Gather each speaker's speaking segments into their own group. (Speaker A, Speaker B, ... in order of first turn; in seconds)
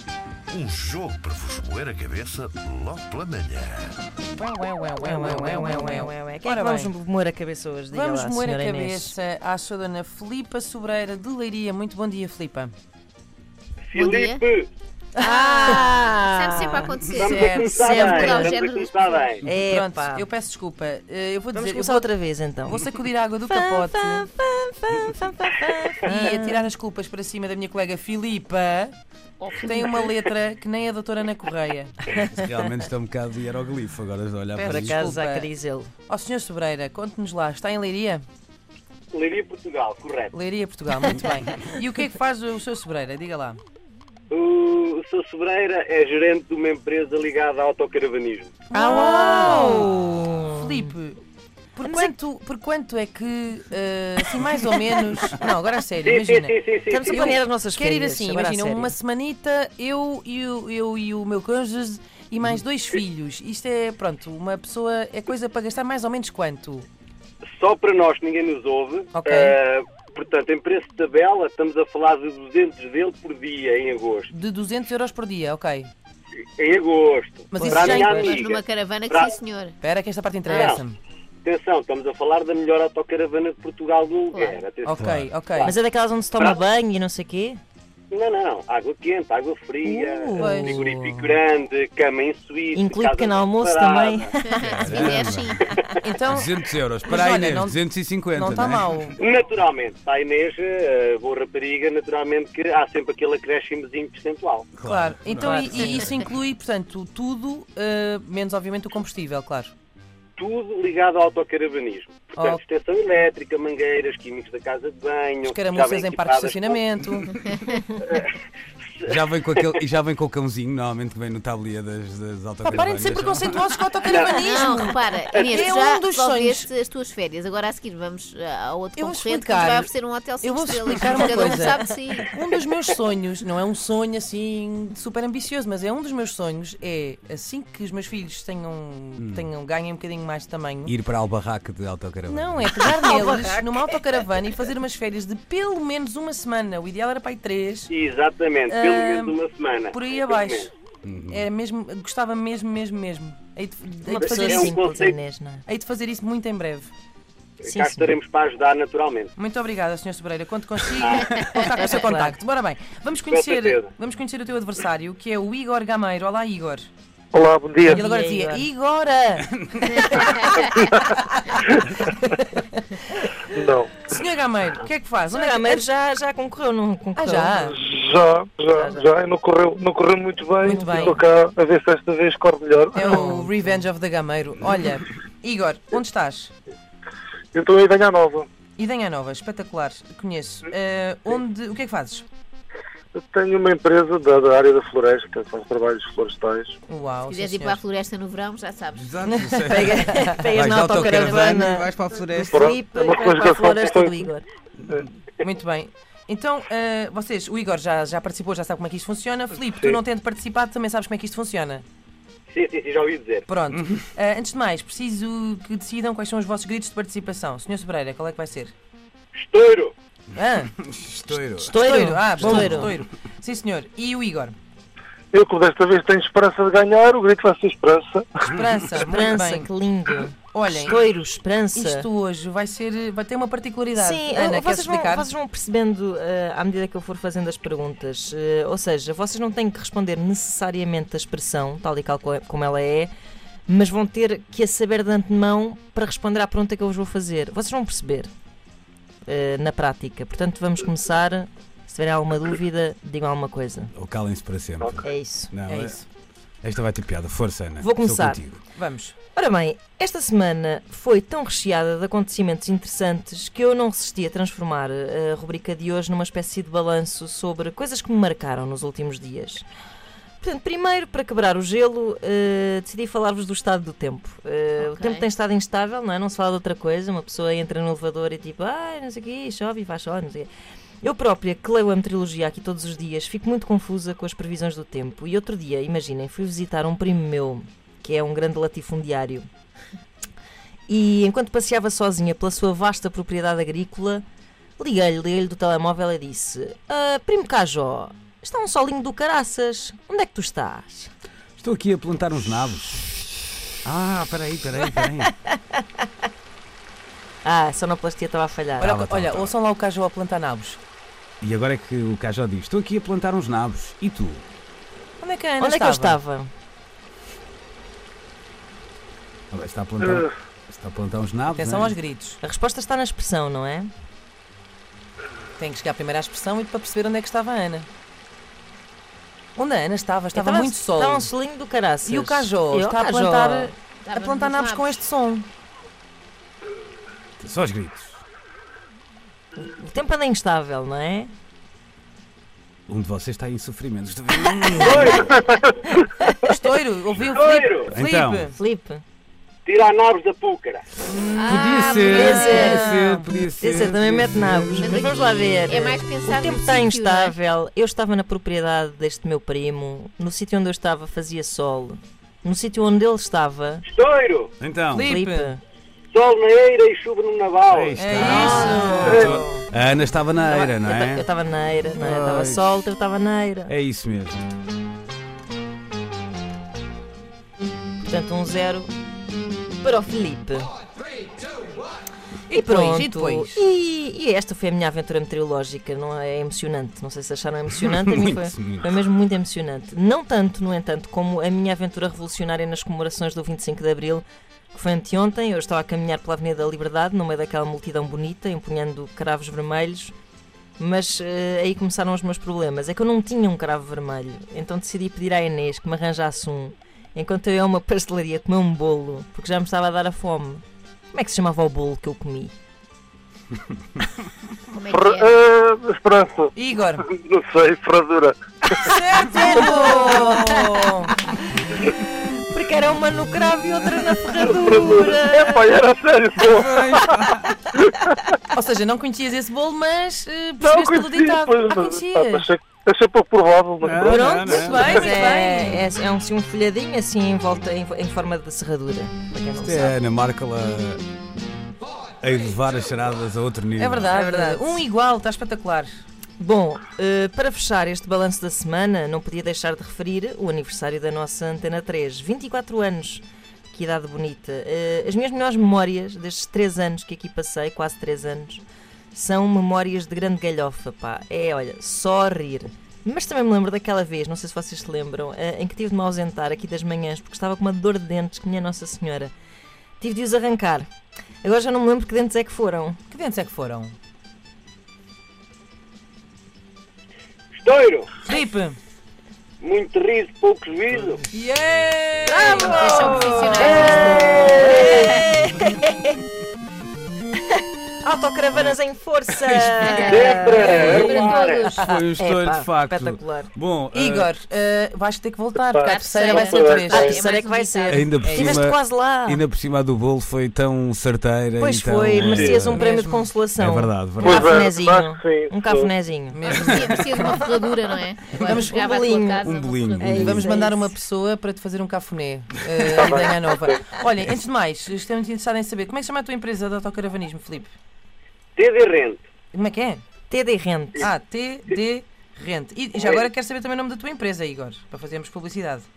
Speaker A: 0.5-4.0
Speaker B: 4.4-6.9, 7.9-12.7, 15.2-15.8, 17.2-18.5, 19.5-22.1, 22.6-24.3, 26.0-28.9, 29.5-31.9, 34.5-35.5, 36.1-38.2, 40.3-43.6, 48.7-50.0, 50.6-51.2, 51.8-66.8, 69.1-69.6, 74.3-75.9, 77.5-78.4, 79.8-81.0, 84.8-85.7, 89.8-91.3, 96.0-96.5, 97.0-99.2, 104.8-109.7, 112.3-112.6, 115.4-117.4, 122.6-126.7, 128.9-140.9, 142.3-147.9, 148.7-149.4, 149.9-150.7, 151.3-154.8, 155.7-156.9, 159.4-166.9, 167.9-171.4, 172.1-172.7, 174.1-175.8, 177.2-177.8, 180.6-181.2, 182.9-186.5, 188.8-192.2, 196.9-197.8, 199.2-200.4, 205.4-211.8, 213.5-218.7, 220.3-220.7, 221.7-224.6, 228.5-229.7, 230.5-231.0, 231.7-235.3, 255.7-256.1, 258.7-259.1, 308.8-310.8, 315.2-316.2, 321.5-322.4, 325.6-327.9, 329.6-331.3, 332.1-335.5, 346.4-348.6, 351.6-353.3, 364.9-365.5, 368.0-369.3, 382.5-383.6, 416.6-417.0, 418.8-421.1, 428.5-432.4, 434.4-435.8, 443.8-446.0, 473.1-473.9, 478.2-478.8, 481.3-484.5, 493.9-497.1, 498.3-498.6, 502.7-503.3, 506.3-507.3, 508.3-508.9, 510.2-517.7, 519.5-520.0, 521.0-525.9
Speaker C: 5.0-9.1, 15.3-17.1, 17.6-18.6, 19.4-20.2, 21.5-22.8, 23.5-26.7, 34.6-35.9, 48.7-50.9, 51.8-52.1, 56.9-58.9, 77.6-78.4, 85.6-87.6, 90.4-90.7, 92.7-95.3, 142.9-143.5, 154.1-155.6, 157.7-158.1, 161.8-162.4, 167.8-168.7, 175.3-177.5, 178.7-179.1, 199.7-204.4, 221.5-222.9, 229.0-232.1, 233.9-243.1, 243.7-248.3, 249.2-253.9, 255.0-255.5, 257.8-258.4, 259.3-269.6, 270.4-280.5, 281.0-289.5, 290.9-294.2, 294.8-301.1, 307.4-309.0, 315.6-316.5, 322.4-323.9, 330.3-333.7, 339.6-341.3, 344.7-345.4, 346.2-346.5, 348.6-349.0, 351.8-353.0, 353.6-363.8, 365.0-365.6, 368.2-369.6, 370.4-373.7, 378.0-378.9, 379.8-380.7, 382.5-400.1, 400.8-410.6, 411.1-412.5, 419.4-420.8, 422.5-425.7, 434.0-440.0, 444.1-444.6, 446.4-458.6, 459.1-469.3, 470.0-470.9, 471.4-473.0, 482.4-486.2, 487.6-493.5, 496.8-499.4, 501.6-507.6, 508.4-510.9, 520.3-521.1
Speaker D: 13.9-14.7, 17.1-19.4, 39.1-40.3, 44.3-48.5, 56.0-57.4, 67.5-74.3, 76.6-79.4, 80.5-80.8, 81.4-85.7, 88.1-94.3, 99.2-104.7, 110.4-116.8, 124.0-124.4, 147.9-150.7, 154.2-155.2, 157.6-159.3, 161.0-161.3, 163.3-163.9, 212.5-213.4, 219.3-219.9, 344.7-345.7, 347.3-347.9, 349.6-350.9, 363.9-364.5, 366.1-368.2, 477.5-478.1, 479.6-481.2, 490.0-491.7, 518.5-519.2, 523.0-523.2
Speaker E: 13.9-14.4, 15.2-19.4, 78.2-79.7, 84.3-84.6, 94.3-95.8, 117.5-117.8, 124.4-132.3, 161.4-162.0, 197.3-199.2, 200.9-201.6, 274.8-275.3, 334.0-334.9, 351.3-352.7, 354.8-357.3, 414.7-415.4, 482.3-485.3, 489.8-491.8, 495.8-498.2, 506.4-510.1
Speaker F: 32.2-35.1, 85.0-85.3, 94.6-95.7, 96.3-98.9, 104.8-106.3, 119.0-123.6, 139.2-139.5, 140.8-143.0, 151.0-151.4, 198.9-202.7, 220.8-222.9, 253.9-256.0, 256.6-258.6, 301.6-303.2, 303.8-305.3, 308.8-309.5, 311.4-314.4, 319.5-321.9, 337.4-338.2, 342.9-345.3, 347.9-348.5, 351.1-355.1, 364.6-365.1, 367.7-371.3, 371.9-372.6, 373.7-374.4, 388.1-388.9, 426.6-427.5, 433.8-435.1, 439.5-441.0, 442.2-444.1, 490.7-491.2, 491.8-494.3, 497.9-502.9, 503.6-504.6, 509.4-510.5
Speaker G: 167.3-168.0, 173.5-173.9, 177.6-183.4, 187.5-188.5, 193.1-196.7, 202.5-204.3, 225.3-228.5, 254.8-255.1, 414.9-416.5, 417.0-418.9, 419.4-420.1, 424.4-427.1, 430.6-435.1, 495.6-497.2, 504.2-505.9, 512.9-513.8